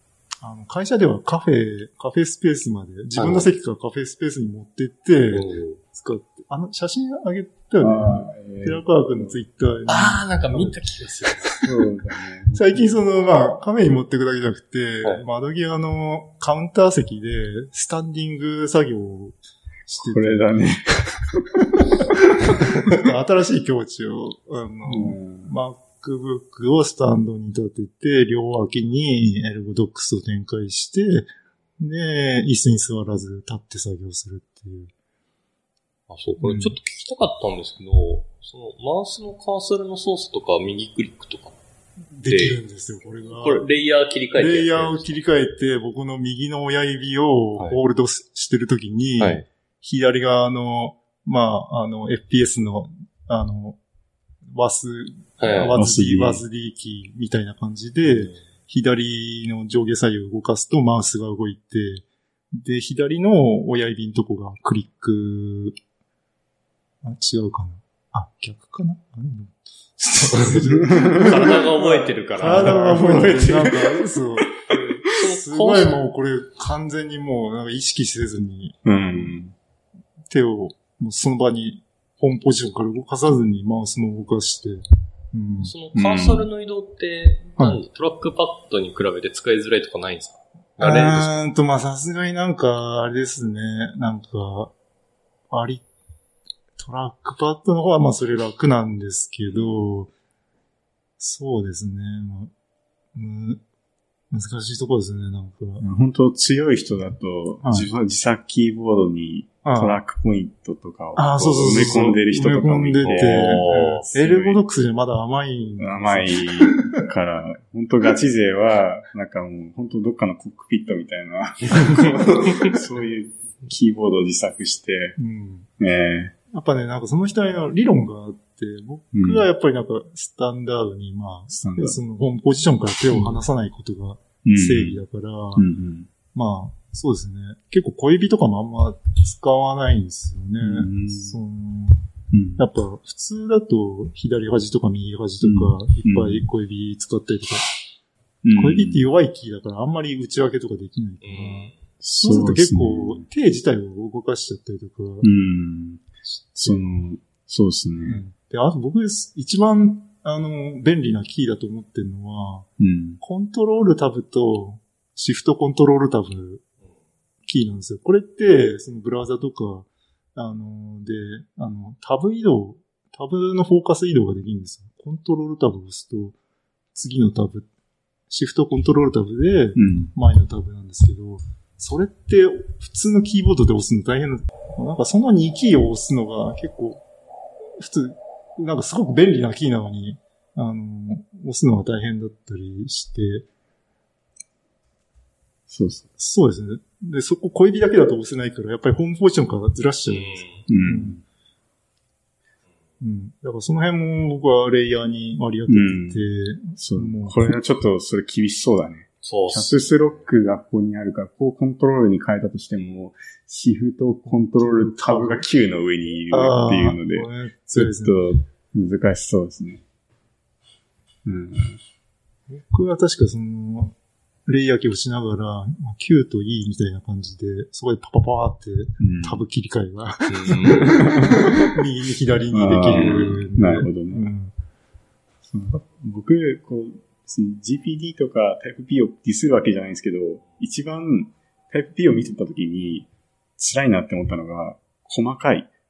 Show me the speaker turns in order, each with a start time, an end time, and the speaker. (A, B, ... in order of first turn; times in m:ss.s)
0:00.4-0:10.8 A
0:03.1-0:03.5 B
0:05.3-0:05.8 B
0:07.8-0:09.4 C
0:09.9-0:11.7 B
0:11.6-0:12.8 C
0:12.5-0:20.5 A
0:19.9-0:21.6 C
0:22.4-0:34.9 A
0:24.9-0:25.5 C
0:36.1-0:41.6 B
0:36.4-0:36.8 A
0:42.1-0:43.7 A
0:42.3-0:42.6 B
0:43.3-0:45.2 B
0:44.3-0:53.8 A
0:49.2-0:49.4 B
0:54.5-1:05.8 A
0:55.4-0:55.8 B
0:55.7-0:56.4 C
1:07.0-1:14.5 A
1:10.6-1:11.5 C
1:11.0-1:13.0 B
1:12.6-1:14.1 C
1:14.7-1:16.0 B
1:15.1-1:19.4 A
1:18.8-1:19.5 C
1:20.3-1:25.7 A
1:25.6-1:31.3 B
1:25.9-1:26.5 C
1:30.8-1:34.7 A
1:35.5-1:35.8 A
1:36.8-1:40.1 A
1:41.2-1:42.5 A
1:43.1-1:43.6 A
1:44.3-1:45.8 A
1:45.8-1:54.6 C
1:47.6-1:47.9 A
1:49.6-1:50.0 A
1:51.2-1:56.8 A
1:53.0-1:54.0 B
1:55.8-2:05.2 C
2:05.2-2:05.7 A
2:05.8-2:06.3 C
2:06.5-2:15.6 A
2:09.1-2:09.5 C
2:11.5-2:12.0 C
2:13.1-2:13.4 C
2:14.4-2:15.0 C
2:15.6-2:16.1 C
2:16.3-2:22.0 A
2:20.6-2:21.4 C
2:22.3-2:22.6 C
2:22.6-2:27.6 A
2:25.4-2:26.5 C
2:28.4-2:29.0 C
2:28.5-2:35.3 A
2:31.2-2:31.8 B
2:32.0-2:33.2 C
2:35.2-2:38.2 C
2:36.4-2:36.9 A
2:38.0-2:42.7 A
2:42.8-2:43.2 C
2:43.2-2:46.6 A
2:47.4-2:56.4 A
2:56.9-2:57.7 A
2:58.3-3:07.0 A
2:59.8-3:00.1 C
3:07.8-3:13.5 A
3:15.7-3:16.1 C
3:16.2-3:21.2 A
3:20.1-3:20.6 B
3:20.7-3:21.2 C
3:23.0-3:27.5 A
3:25.7-3:39.8 C
3:29.2-3:30.0 B
3:34.3-3:35.4 A
3:36.3-3:38.2 A
3:41.2-3:41.8 C
3:42.5-3:54.5 A
3:49.0-3:49.4 C
3:50.3-3:51.0 B
3:50.8-3:51.7 C
3:52.5-3:54.3 C
3:52.9-3:53.4 B
3:55.5-4:05.7 C